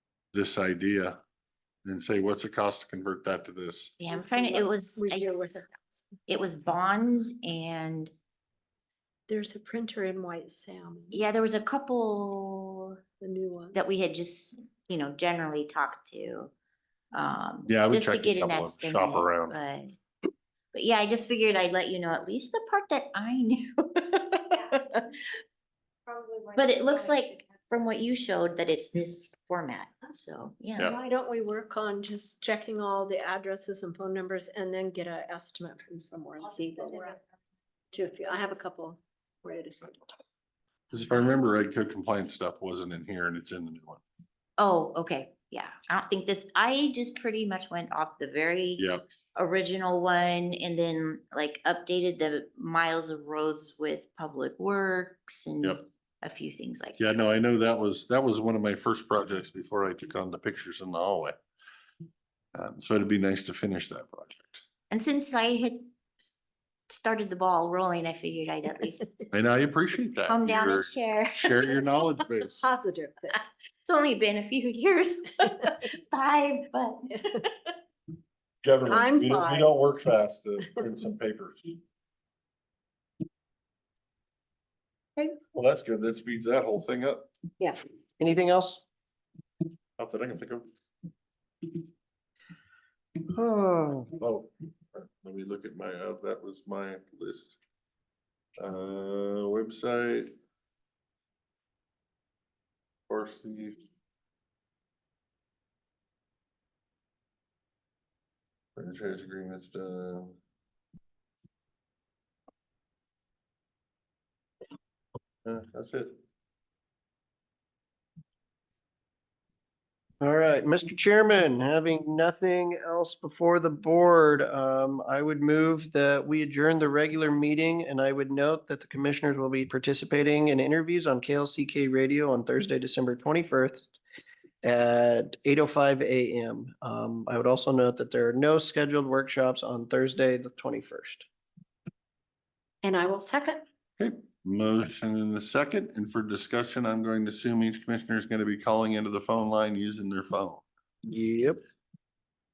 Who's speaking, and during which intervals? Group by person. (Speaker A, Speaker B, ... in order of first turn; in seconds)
Speaker A: 0.3-1.2, 1.8-3.9, 17.7-19.6, 40.9-44.0, 48.8-49.0, 57.0-61.4, 62.5-64.6, 69.3-72.7, 78.6-81.8, 85.5-87.3, 90.0-90.7, 94.2-97.6, 98.6-100.3, 103.1-103.8, 108.8-110.4, 115.4-116.2, 144.0-150.6
Speaker B: 4.0-5.4, 6.3-8.1, 11.1-13.0, 13.7-16.5, 17.1-19.9, 20.7-24.6, 26.5-30.9, 44.6-48.8, 49.3-57.0, 64.9-66.3, 66.9-69.1, 70.3-71.6, 73.8-77.5
Speaker C: 4.1-6.0, 9.3-11.2, 13.2-13.9, 30.8-37.2, 37.9-40.1, 72.4-73.4, 78.9-79.8, 142.8-143.6
Speaker D: 88.2-88.8, 93.3-94.1, 120.2-134.0, 134.6-141.2, 151.1-151.6